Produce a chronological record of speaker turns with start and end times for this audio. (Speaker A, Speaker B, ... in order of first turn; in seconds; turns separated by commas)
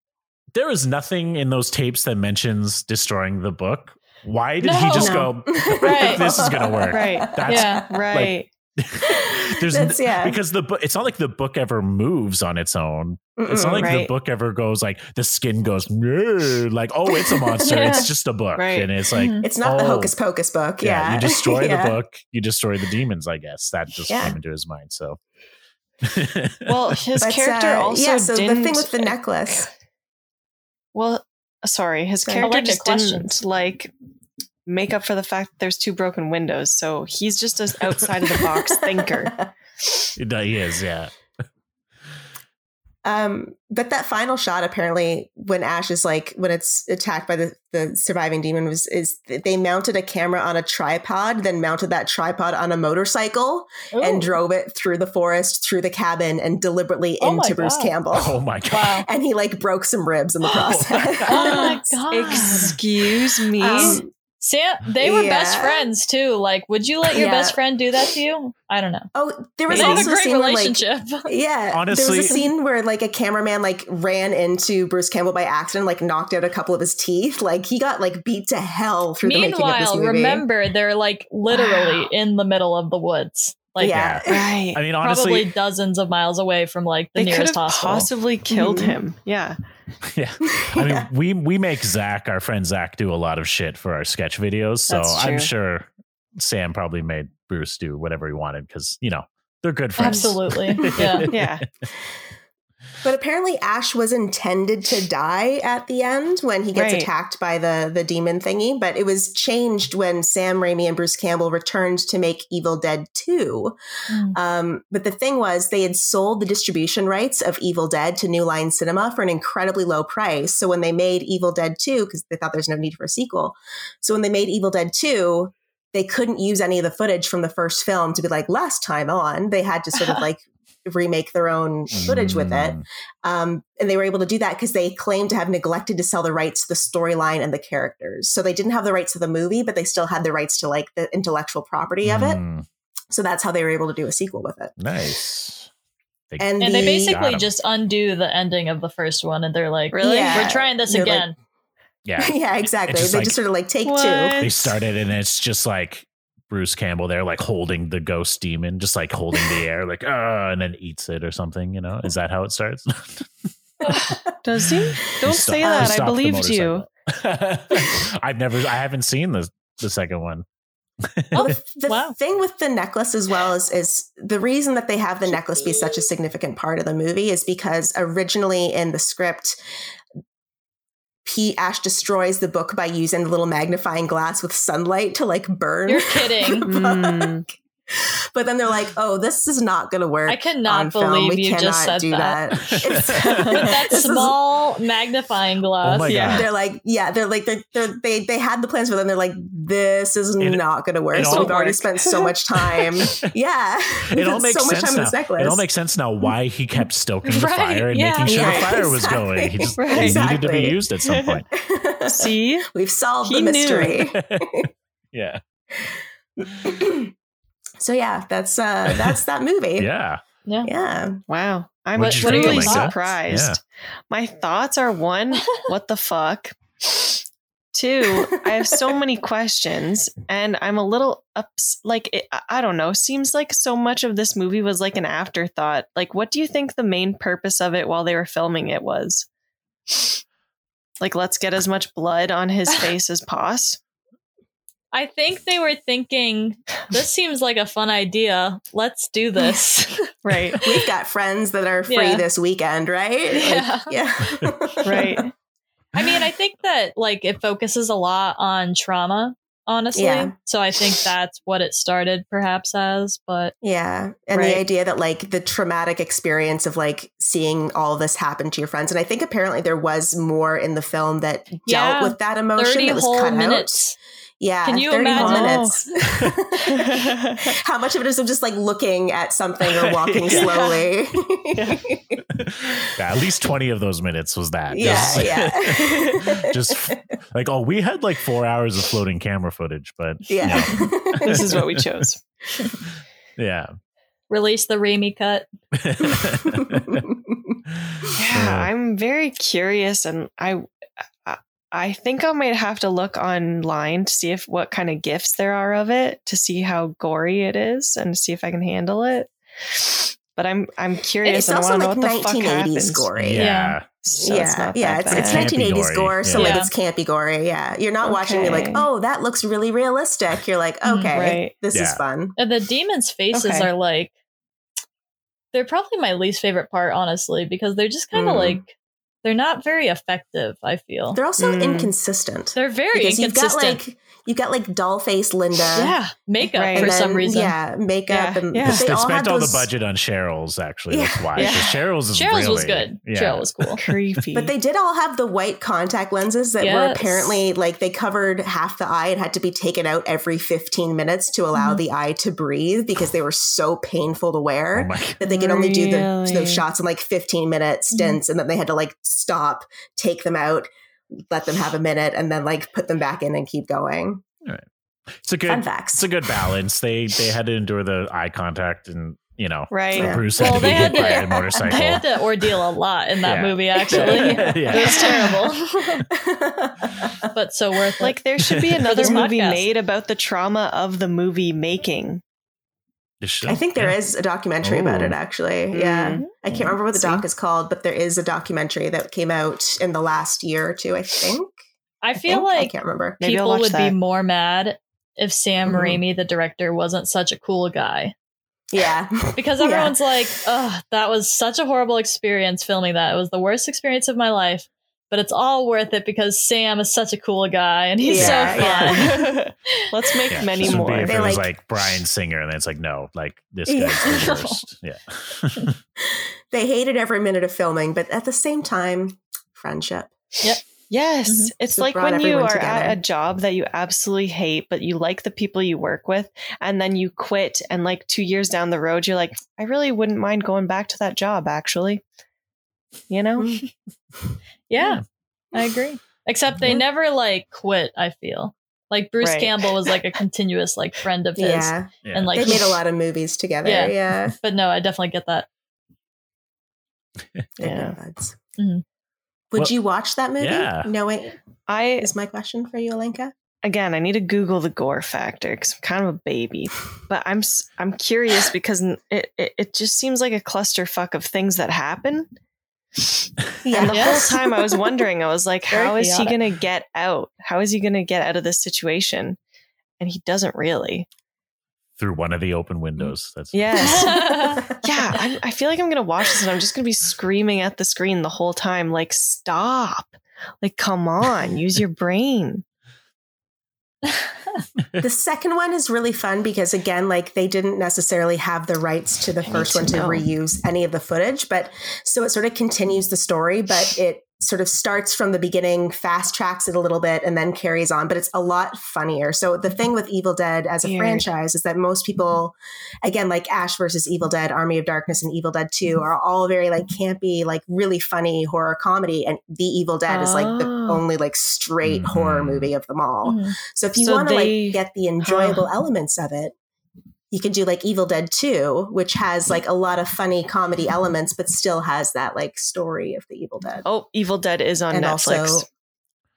Speaker A: 0.5-20.1, Speaker B: 4.6-5.2, Speaker C: 4.9-7.8, Speaker B: 5.8-6.3, Speaker D: 6.9-8.5, Speaker B: 7.5-7.8, Speaker C: 9.0-10.4, Speaker C: 13.4-13.9, Speaker D: 13.8-14.1, Speaker C: 17.1-18.1, Speaker B: 17.6-18.1, Speaker D: 18.6-18.9, Speaker B: 19.1-19.5, Speaker C: 19.4-22.0, Speaker A: 20.8-25.2, Speaker C: 24.1-24.4, Speaker A: 26.0-26.7, Speaker D: 26.7-29.6, Speaker C: 27.2-29.7, Speaker D: 30.9-33.9, Speaker C: 32.2-32.5, Speaker B: 32.4-33.4, Speaker D: 34.7-39.4, Speaker C: 38.8-39.5, Speaker A: 40.2-41.1, Speaker C: 43.0-58.4, Speaker B: 53.9-54.4, Speaker B: 57.2-57.9, Speaker A: 58.1-59.0, Speaker B: 58.7-59.1, Speaker C: 59.0-62.7, Speaker B: 60.5-60.8, Speaker A: 60.6-61.3, Speaker B: 61.3-62.8, Speaker D: 61.3-64.0, Speaker C: 63.6-64.1, Speaker B: 63.8-69.1, Speaker C: 65.0-65.9, Speaker C: 67.1-67.6, Speaker C: 69.2-80.5, Speaker B: 69.7-71.3, Speaker D: 69.7-70.1, Speaker A: 71.7-72.4, Speaker B: 79.2-84.0, Speaker C: 81.5-82.1, Speaker C: 83.8-84.5, Speaker A: 83.9-85.5, Speaker D: 84.3-84.8, Speaker B: 85.0-88.1, Speaker D: 87.2-89.6, Speaker C: 88.5-89.0, Speaker A: 90.0-101.5, Speaker C: 90.5-91.1, Speaker D: 94.9-95.5, Speaker B: 100.0-101.3, Speaker C: 100.8-101.2, Speaker D: 101.3-101.6, Speaker C: 103.0-113.8, Speaker D: 106.8-107.1, Speaker B: 114.1-114.4, Speaker C: 114.3-142.4, Speaker A: 131.9-132.8, Speaker A: 142.0-142.7, Speaker C: 143.1-144.7, Speaker A: 144.8-145.7, Speaker A: 146.3-147.5, Speaker C: 146.4-147.2, Speaker B: 146.6-151.3, Speaker D: 149.9-150.6, Speaker C: 150.0-151.3, Speaker A: 152.1-153.4, Speaker C: 152.2-154.5, Speaker D: 153.8-154.7, Speaker A: 154.4-163.3, Speaker C: 163.9-164.2, Speaker A: 163.9-164.1, Speaker D: 163.9-166.8, Speaker A: 164.9-170.4, Speaker C: 165.6-166.0, Speaker A: 171.0-171.5, Speaker B: 171.3-172.2, Speaker C: 171.3-179.6, Speaker C: 181.2-194.4, Speaker B: 185.9-186.7, Speaker D: 186.7-187.4, Speaker B: 190.3-192.4, Speaker A: 192.7-193.5, Speaker D: 193.3-193.7, Speaker B: 193.6-196.3, Speaker A: 195.8-196.5, Speaker D: 196.1-196.4, Speaker C: 196.2-205.6, Speaker A: 200.4-201.6, Speaker D: 201.2-202.3, Speaker A: 204.1-211.5, Speaker B: 207.2-208.6, Speaker C: 208.2-210.8, Speaker D: 208.4-208.7, Speaker D: 209.8-210.3, Speaker D: 211.1-211.4, Speaker C: 211.5-214.7, Speaker D: 212.1-212.7, Speaker D: 213.2-214.0, Speaker A: 214.1-215.4, Speaker C: 215.8-217.1, Speaker C: 217.8-219.9, Speaker A: 219.8-220.2, Speaker B: 220.5-220.7, Speaker C: 220.6-221.2, Speaker D: 221.3-223.6, Speaker A: 222.0-223.6, Speaker B: 222.0-223.0, Speaker D: 224.1-227.2, Speaker D: 227.7-239.3, Speaker C: 228.2-228.9, Speaker D: 241.0-243.8, Speaker B: 244.9-250.8, Speaker D: 250.2-250.6, Speaker C: 250.6-255.3, Speaker B: 251.9-252.2, Speaker B: 253.3-253.9, Speaker D: 254.8-255.3, Speaker B: 255.9-263.5, Speaker C: 259.9-260.3, Speaker C: 263.6-273.9, Speaker D: 264.3-264.6, Speaker B: 271.7-274.0, Speaker C: 274.4-282.8, Speaker B: 274.6-275.7, Speaker D: 275.1-275.8, Speaker A: 276.0-276.4, Speaker D: 276.6-277.6, Speaker A: 279.9-280.6, Speaker D: 280.3-280.7, Speaker D: 281.5-281.8, Speaker A: 282.3-291.9, Speaker C: 284.7-287.0, Speaker D: 284.9-285.2, Speaker C: 290.3-291.6, Speaker D: 291.2-292.2, Speaker A: 293.4-293.7, Speaker B: 294.3-295.4, Speaker A: 295.7-297.1, Speaker C: 296.1-297.6, Speaker A: 297.8-298.7, Speaker D: 298.1-300.7, Speaker D: 301.2-313.1, Speaker C: 311.2-313.5, Speaker A: 313.2-313.9, Speaker B: 313.4-313.8, Speaker D: 314.0-315.5, Speaker C: 314.2-322.4, Speaker A: 315.1-316.5, Speaker B: 316.4-316.7, Speaker D: 316.4-316.6, Speaker D: 318.0-318.9, Speaker B: 320.8-321.1, Speaker D: 321.1-321.6, Speaker A: 321.7-322.0, Speaker B: 322.4-324.1, Speaker D: 323.3-323.7, Speaker B: 325.5-331.2, Speaker C: 328.1-328.6, Speaker C: 331.1-336.0, Speaker D: 331.4-331.9, Speaker B: 332.6-333.8, Speaker B: 335.7-337.6, Speaker D: 336.6-336.9, Speaker C: 336.7-339.7, Speaker D: 338.1-338.9, Speaker A: 338.6-344.0, Speaker C: 340.9-341.6, Speaker D: 341.4-341.7, Speaker B: 342.1-343.8, Speaker D: 343.8-344.5, Speaker C: 344.4-364.2, Speaker B: 346.6-347.4, Speaker B: 351.6-351.8, Speaker A: 354.8-355.2, Speaker D: 355.2-356.6, Speaker B: 357.9-358.2, Speaker A: 364.4-372.5, Speaker C: 365.5-366.1, Speaker D: 369.7-370.1, Speaker C: 369.9-371.1, Speaker B: 370.4-376.0, Speaker A: 373.2-375.2, Speaker D: 374.7-375.3, Speaker C: 375.0-375.3, Speaker C: 376.1-377.3, Speaker B: 377.3-378.2, Speaker D: 378.0-382.2, Speaker A: 378.4-378.9, Speaker B: 378.9-379.7, Speaker C: 379.0-379.3, Speaker A: 383.2-384.0, Speaker C: 383.5-391.5, Speaker A: 384.6-385.2, Speaker D: 385.7-387.2, Speaker B: 392.0-398.1, Speaker C: 392.2-393.2, Speaker D: 393.2-394.0, Speaker C: 395.6-396.0, Speaker C: 398.7-400.0, Speaker B: 399.4-409.3, Speaker C: 408.0-409.1, Speaker A: 408.1-408.6, Speaker D: 408.5-411.3, Speaker A: 410.3-415.8, Speaker C: 410.6-411.5, Speaker C: 413.7-414.1, Speaker B: 414.1-414.6, Speaker C: 416.0-420.1, Speaker D: 420.9-432.0, Speaker B: 421.3-421.5, Speaker C: 421.7-423.0, Speaker D: 433.1-433.6, Speaker C: 433.4-433.6, Speaker B: 434.7-442.8, Speaker D: 439.2-439.9, Speaker C: 441.4-444.4, Speaker A: 442.1-442.4, Speaker B: 443.6-445.5, Speaker C: 447.6-448.4, Speaker D: 447.6-448.0, Speaker B: 448.6-448.8, Speaker C: 449.5-451.4, Speaker A: 450.4-450.9, Speaker D: 451.7-452.1, Speaker C: 452.0-453.3, Speaker D: 453.6-462.3, Speaker C: 463.6-464.4, Speaker D: 463.7-469.4, Speaker B: 463.9-464.4, Speaker B: 465.7-466.4, Speaker D: 470.0-471.1, Speaker A: 472.0-474.1, Speaker D: 473.0-482.6, Speaker B: 473.8-474.7, Speaker C: 485.0-516.5, Speaker D: 489.4-490.3, Speaker D: 500.8-501.3, Speaker D: 510.1-511.0, Speaker A: 511.8-512.7, Speaker B: 513.2-513.6, Speaker D: 514.0-515.7, Speaker C: 517.3-523.9, Speaker D: 523.9-525.7, Speaker C: 524.9-525.7